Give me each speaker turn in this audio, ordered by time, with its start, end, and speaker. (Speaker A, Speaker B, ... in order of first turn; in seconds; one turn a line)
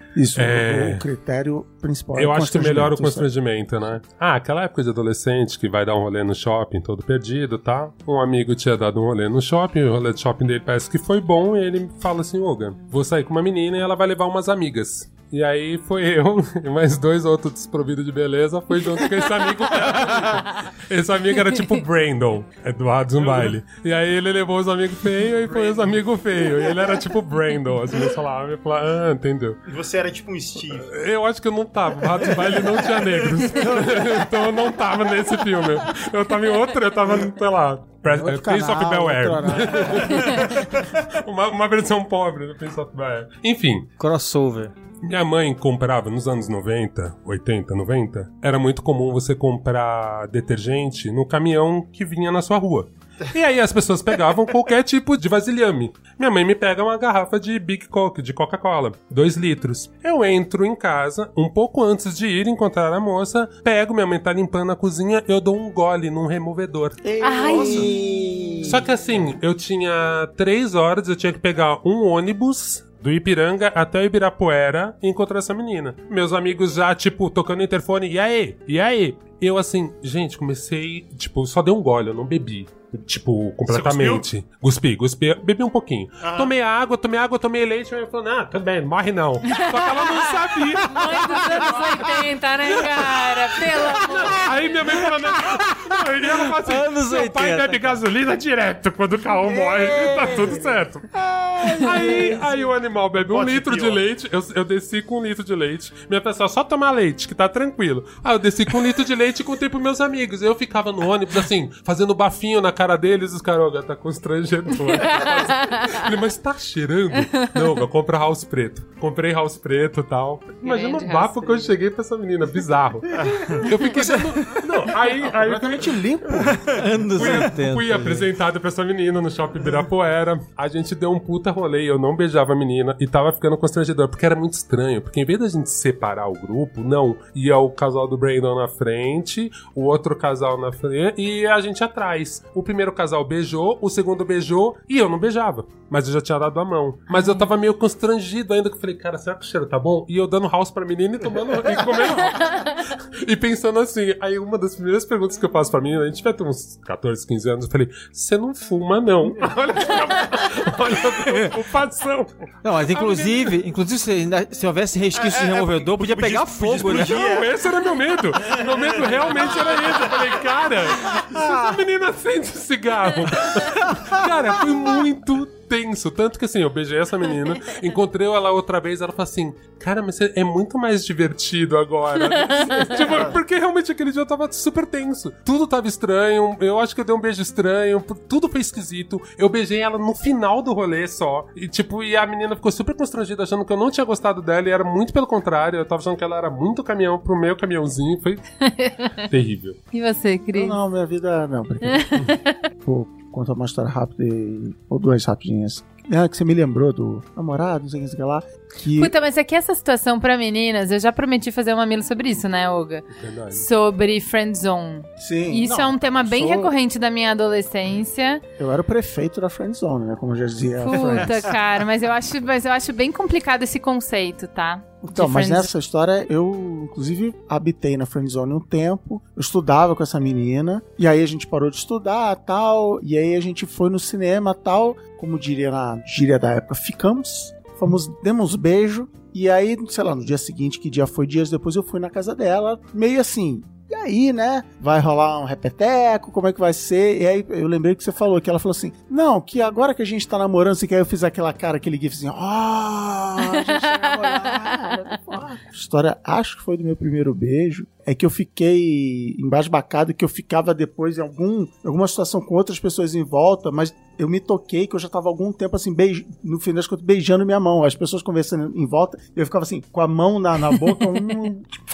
Speaker A: 0.1-3.3
Speaker B: 0.3-1.1
Speaker B: 2.1-29.6
Speaker C: 23.2-23.6
Speaker C: 25.4-26.9
Speaker C: 29.6-30.9
Speaker B: 30.7-43.9
Speaker C: 32.2-33.8
Speaker A: 33.5-34.3
Speaker A: 38.0-40.4
Speaker C: 40.0-40.9
Speaker D: 44.0-44.7
Speaker B: 45.0-67.0
Speaker A: 67.0-69.2
Speaker E: 67.2-67.9
Speaker B: 68.6-91.8
Speaker C: 83.7-84.3
Speaker C: 86.2-86.5
Speaker E: 89.5-94.5
Speaker B: 94.0-101.1
Speaker D: 95.5-97.9
Speaker A: 99.3-102.4
Speaker B: 101.6-126.0
Speaker D: 101.8-102.6
Speaker C: 103.3-104.0
Speaker E: 115.2-116.0
Speaker E: 120.6-121.7
Speaker C: 123.1-123.6
Speaker A: 125.2-126.8
Speaker D: 126.7-128.2
Speaker C: 127.1-127.4
Speaker B: 127.2-162.3
Speaker E: 147.1-147.4
Speaker D: 162.6-167.3
Speaker B: 162.9-163.5
Speaker C: 165.2-167.5
Speaker B: 166.9-198.6
Speaker C: 168.3-170.4
Speaker E: 182.5-183.0
Speaker C: 182.9-183.3
Speaker E: 198.7-199.2
Speaker B: 199.1-199.8
Speaker E: 199.9-200.8
Speaker A: 200.5-209.1
Speaker E: 201.9-202.2
Speaker E: 208.9-218.4
Speaker B: 213.1-213.7
Speaker A: 215.2-216.7
Speaker A: 218.6-221.5
Speaker E: 220.8-225.7
Speaker D: 221.0-221.4
Speaker A: 225.0-271.7
Speaker E: 253.4-255.0